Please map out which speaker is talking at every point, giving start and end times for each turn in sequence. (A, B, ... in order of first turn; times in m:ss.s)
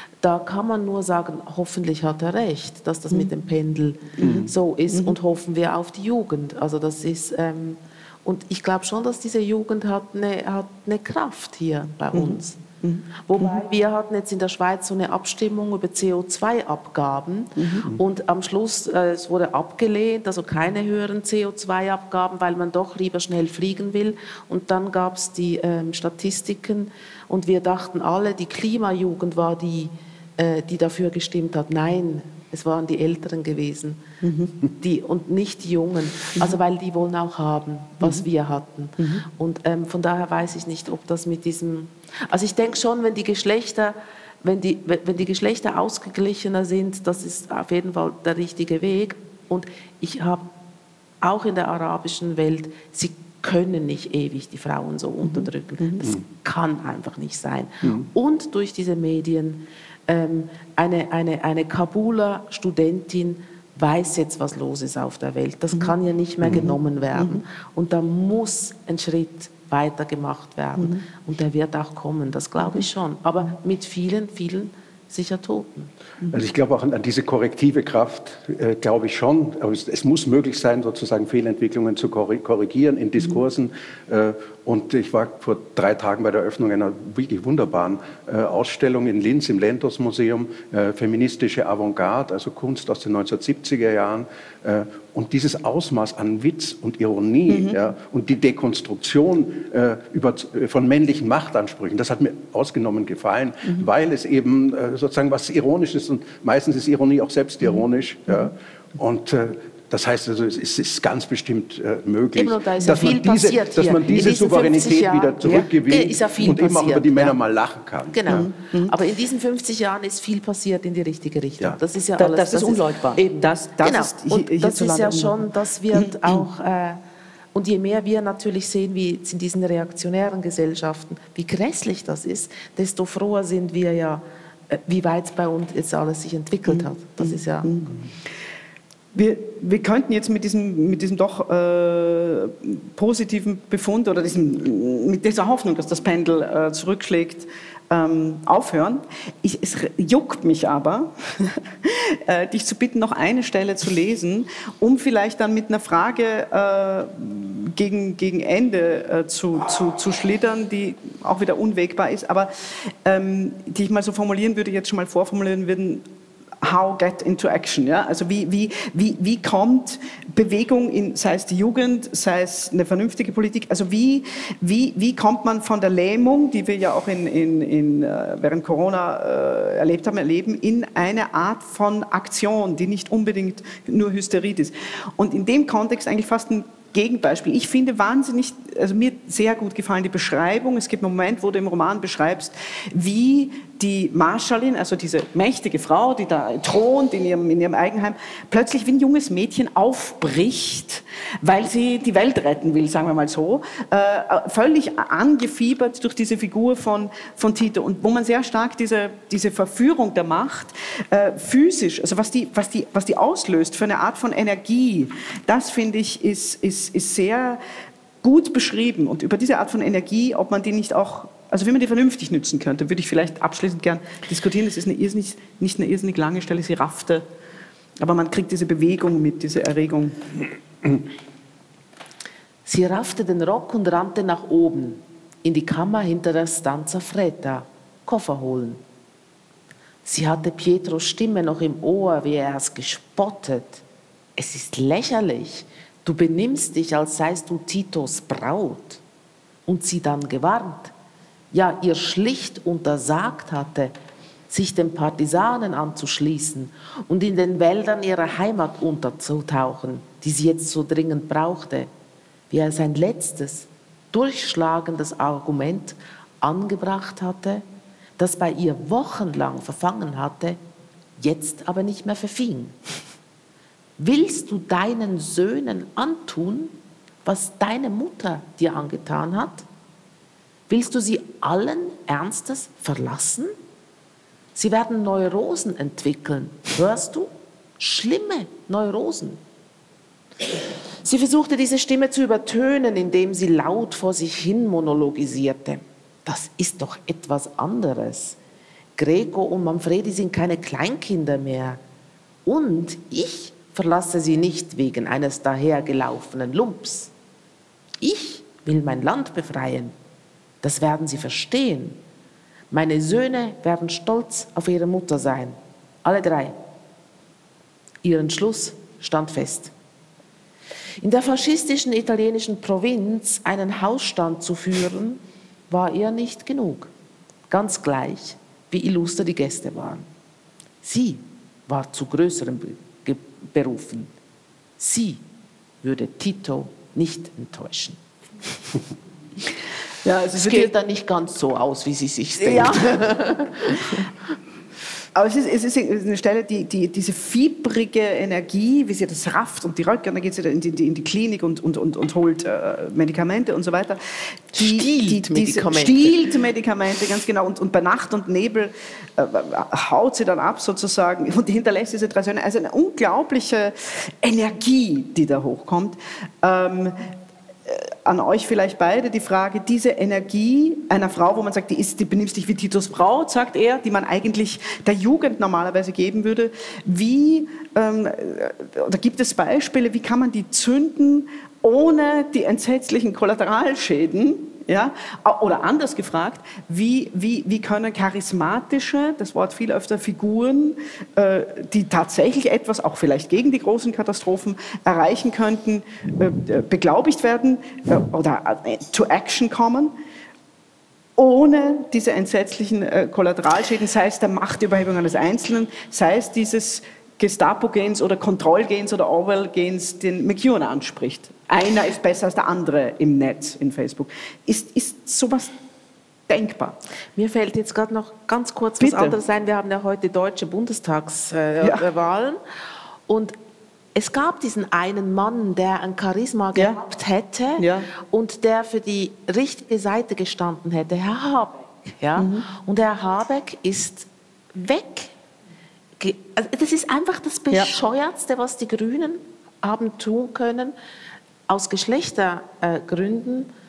0:00.2-0:12.6 A
0:04.2-0:05.2 B
0:04.2-0:04.5 C
0:12.1-0:13.6 B
0:13.3-0:34.0 A
0:17.6-0:17.9 B
0:34.2-0:34.5 B
0:34.7-0:50.5 A
0:39.0-0:39.2 B
0:51.2-1:15.9 A
0:55.2-0:56.1 B
1:06.5-1:07.4 B
1:10.8-1:11.0 B
1:16.3-1:58.5 C
1:37.5-1:37.8 B
1:47.6-1:48.5 B
1:52.3-1:57.4 A
1:58.1-2:07.0 A
1:58.3-1:58.9 B
2:02.2-2:05.4 B
2:06.0-2:06.4 B
2:07.6-2:17.7 A
2:16.7-2:18.0 B
2:19.2-2:46.0 B
2:46.6-3:37.6 B
3:38.2-3:47.2 B
3:48.0-3:50.2 B
3:52.7-3:58.8 A
4:00.0-4:03.8 A
4:04.4-4:09.0 A
4:09.7-4:10.9 A
4:11.5-4:14.0 A
4:14.5-4:21.9 A
4:22.5-4:27.6 A
4:28.2-4:30.6 A
4:31.2-4:32.8 A
4:34.0-4:36.7 A
4:37.2-4:39.7 A
4:40.7-4:43.5 A
4:44.6-4:49.4 A
4:51.0-4:58.4 A
4:59.0-5:01.8 A
5:02.5-5:07.1 A
5:08.0-5:09.9 A
5:10.6-5:12.0 A
5:12.7-5:16.6 A
5:18.0-5:19.7 A
5:21.0-5:26.9 A
5:27.5-5:30.1 A
5:30.8-5:34.1 A
5:34.8-5:35.2 A
5:35.8-5:38.0 A
5:40.0-5:40.7 B
5:40.4-5:44.0 A
5:42.4-5:43.0 B
5:45.2-5:54.0 B
5:54.5-6:07.0 B
5:54.6-5:56.3 A
6:07.7-6:39.9 B
6:41.2-6:55.5 B
6:56.3-6:56.8 B
6:57.2-7:02.4 A
6:58.8-6:59.2 B
7:03.1-7:03.4 A
7:04.0-7:15.1 A
7:07.6-7:07.9 B
7:12.2-7:12.5 B
7:16.0-7:20.8 A
7:21.5-7:23.5 A